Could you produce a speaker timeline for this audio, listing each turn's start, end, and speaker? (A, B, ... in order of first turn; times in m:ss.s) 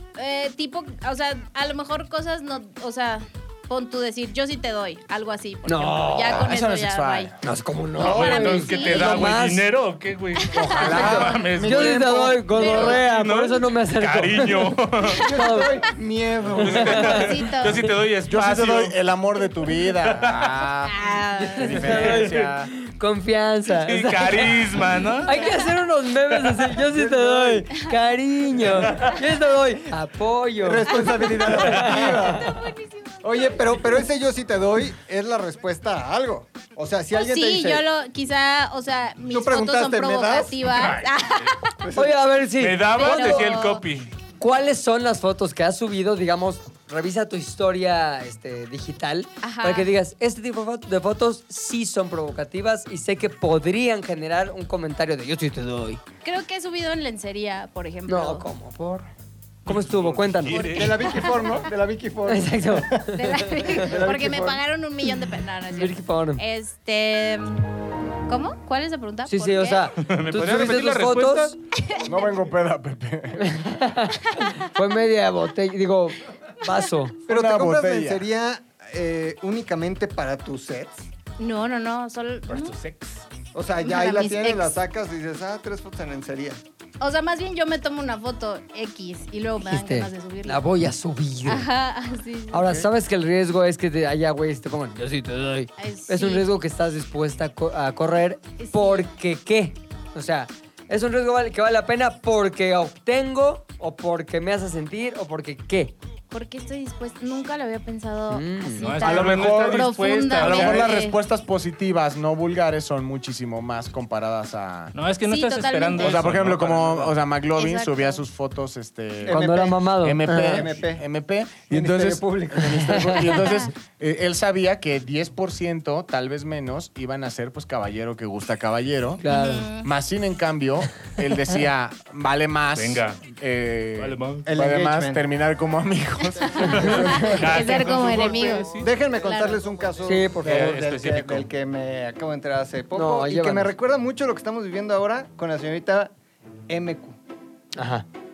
0:00.2-0:07.3 A
0:05.6-0:06.5 B
0:06.3-0:07.3 C
0:07.4-0:09.7 B
0:08.0-0:15.2 D
0:08.1-0:09.2 A
0:10.4-0:11.0 A
0:10.5-0:11.4 C
0:10.8-0:15.8 B
0:10.9-0:12.8 E
0:12.5-0:13.0 A
0:15.1-0:17.2 E
0:16.5-0:19.0 D
0:16.6-0:17.2 B
0:17.0-0:17.9 A
0:18.3-0:22.7 C
0:20.0-0:20.5 D
0:20.9-0:21.8 A
0:21.4-0:24.6 B
0:21.8-0:22.4 D
0:23.8-0:25.4 D
0:25.2-0:32.6 B
0:25.4-0:25.6 A
0:26.9-0:27.7 E
0:30.6-0:32.6 E
0:32.4-0:33.2 A
0:33.2-0:37.9 E
0:37.1-0:41.7 A
0:39.2-0:40.6 E
0:40.7-0:41.5 D
0:41.8-0:42.2 E
0:42.0-0:43.5 B
0:42.6-0:44.1 D
0:43.0-0:43.8 A
0:44.4-0:56.0 B
0:49.4-0:49.9 A
0:56.2-0:58.4 A
0:58.1-0:59.1 B
0:59.7-1:00.8 B
0:59.7-1:01.2 D
1:00.6-1:03.1 E
1:02.3-1:03.9 B
1:03.1-1:07.7 A
1:03.8-1:04.6 E
1:05.7-1:06.4 B
1:08.3-1:09.9 A
1:09.3-1:11.6 B
1:10.0-1:11.6 D
1:12.0-1:13.8 C
1:13.4-1:17.2 B
1:17.3-1:18.3 C
1:17.3-1:21.1 E
1:21.4-1:22.8 A
1:22.5-1:23.2 D
1:23.5-1:26.6 E
1:23.8-1:24.8 A
1:27.0-1:30.7 A
1:29.6-1:31.7 B
1:31.5-1:32.8 A
1:32.5-1:45.9 B
1:35.8-1:36.5 A
1:38.6-1:39.1 A
1:46.3-1:51.2 A
1:48.3-1:49.0 B
1:48.8-1:50.9 D
1:49.0-1:54.9 C
1:55.0-1:57.1 D
1:55.3-1:56.2 A
1:56.0-2:09.2 C
1:57.6-1:58.2 A
1:59.3-2:00.6 B
1:59.3-2:01.0 E
2:01.7-2:03.4 E
2:02.9-2:03.2 B
2:03.4-2:03.7 A
2:09.2-2:09.7 B
2:09.2-2:09.9 A
2:09.8-2:17.6 C
2:12.8-2:13.2 D
2:14.0-2:14.5 D
2:14.5-2:15.2 E
2:16.4-2:26.1 E
2:16.9-2:19.7 A
2:16.9-2:18.9 D
2:20.0-2:20.7 B
2:20.4-2:21.5 D
2:22.9-2:23.7 B
2:26.7-2:27.2 E
2:27.8-2:28.1 B